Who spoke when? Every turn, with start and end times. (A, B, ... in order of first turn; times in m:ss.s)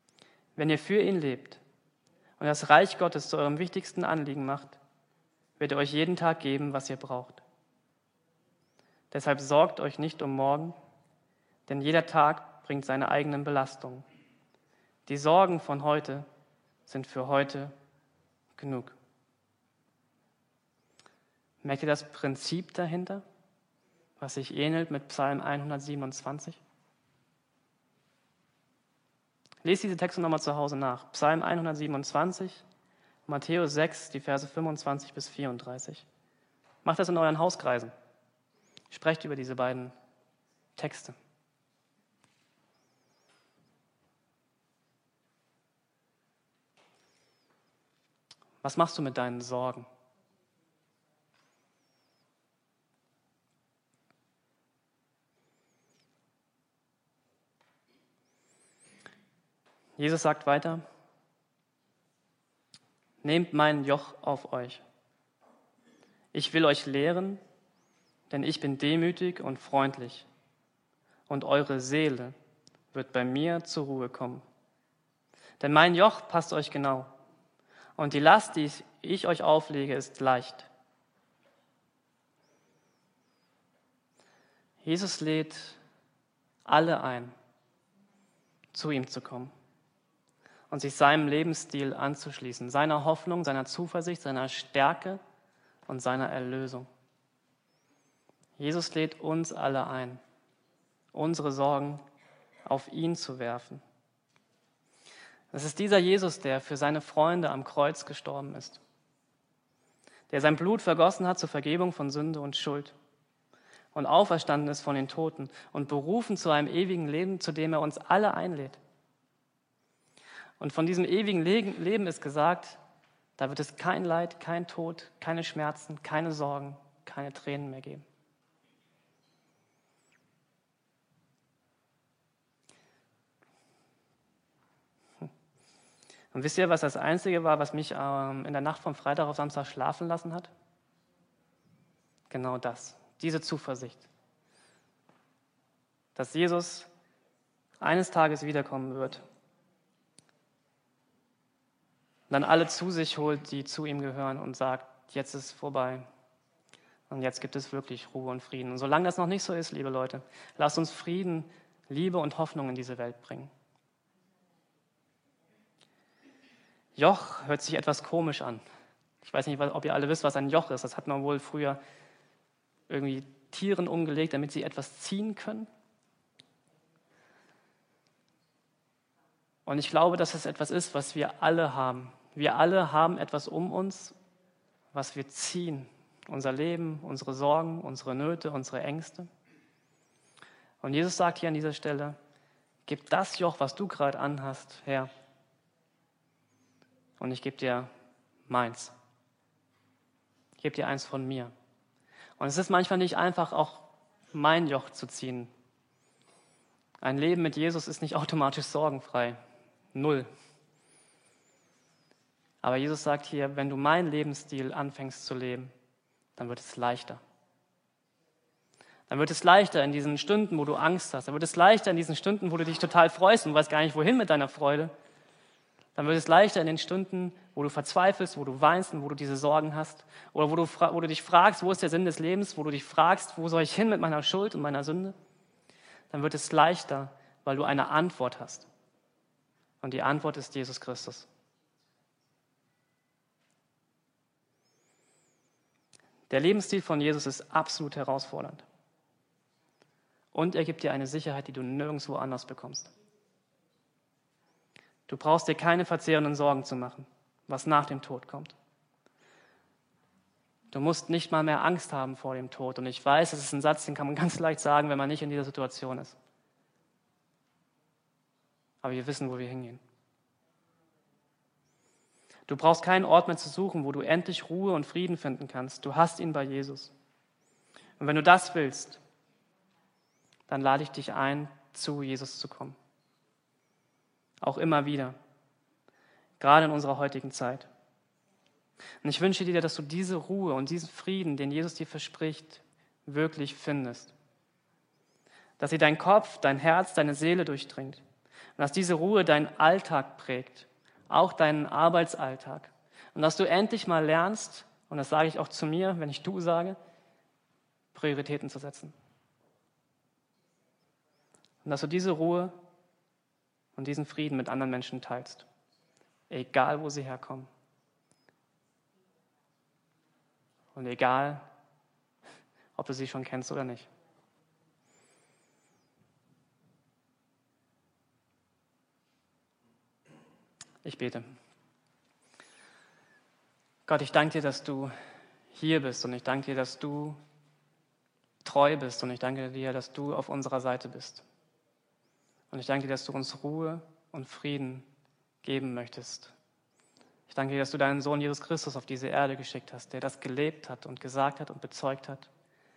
0:00.6-0:01.6 A
0:02.4-0:04.8 A
0:05.6-0:07.4 A
0:09.1-0:10.8 A
0:11.7-0:14.0 A
0:15.0-0:16.2 A
0:16.9-0:17.7 A
0:18.6-0:19.0 A
0:21.6-0:23.2 A
0:24.2-0:26.6 A
0:29.6-0:32.6 A
0:33.3-0:36.0 A
0:36.8-0:37.9 A
0:38.9-0:39.9 A
0:40.8-0:41.2 A
0:48.6-0:49.9 A
1:00.0-1:00.8 A
1:03.2-1:04.8 A
1:06.3-1:07.4 A
1:08.3-1:10.3 A
1:11.3-1:12.3 A
1:12.9-1:14.4 A
1:15.6-1:17.1 A
1:18.0-1:20.7 A
1:24.8-1:25.8 A
1:26.6-1:27.3 A
1:28.7-1:29.5 A
1:30.7-1:35.2 A
1:35.9-1:36.9 A
1:38.6-1:40.2 A
1:41.1-1:42.0 A
1:42.6-1:43.8 A
1:45.5-1:48.8 A
1:50.3-1:52.9 A
1:53.9-1:58.8 A
2:00.6-2:02.8 A
2:03.4-2:08.0 A
2:16.3-2:20.5 A
2:22.3-2:24.1 A
2:26.2-2:26.9 A
2:27.8-2:29.2 A
2:32.3-2:36.0 A
2:37.1-2:43.5 A
2:47.0-2:48.6 A
2:49.2-2:51.8 A
2:52.9-2:55.7 A
2:59.6-3:04.2 A
3:04.9-3:09.3 A
3:10.8-3:12.2 A
3:12.8-3:15.1 A
3:17.2-3:17.9 A
3:18.5-3:18.9 A
3:20.6-3:21.5 A
3:22.4-3:25.5 A
3:27.0-3:29.4 A
3:29.9-3:30.3 A
3:32.6-3:35.7 A
3:36.4-3:37.2 A
3:39.1-3:44.9 A
3:46.0-3:55.1 A
3:56.1-3:58.7 A
3:59.8-4:01.3 A
4:06.3-4:08.6 A
4:10.3-4:12.9 A
4:15.1-4:18.5 A
4:20.7-4:26.2 A
4:28.8-4:29.8 A
4:32.5-4:36.9 A
4:38.0-4:39.0 A
4:40.5-4:42.8 A
4:44.4-4:45.2 A
4:46.4-4:47.7 A
4:49.0-4:54.1 A
4:55.6-4:58.0 A
4:58.6-5:06.8 A
5:07.9-5:08.9 A
5:11.6-5:12.5 A
5:13.8-5:15.4 A
5:16.3-5:17.5 A
5:20.7-5:21.4 A
5:22.8-5:23.9 A
5:30.8-5:31.3 A
5:33.8-5:34.9 A
5:35.5-5:37.2 A
5:38.4-5:41.2 A
5:42.5-5:44.8 A
5:45.4-5:46.3 A
5:47.3-5:52.3 A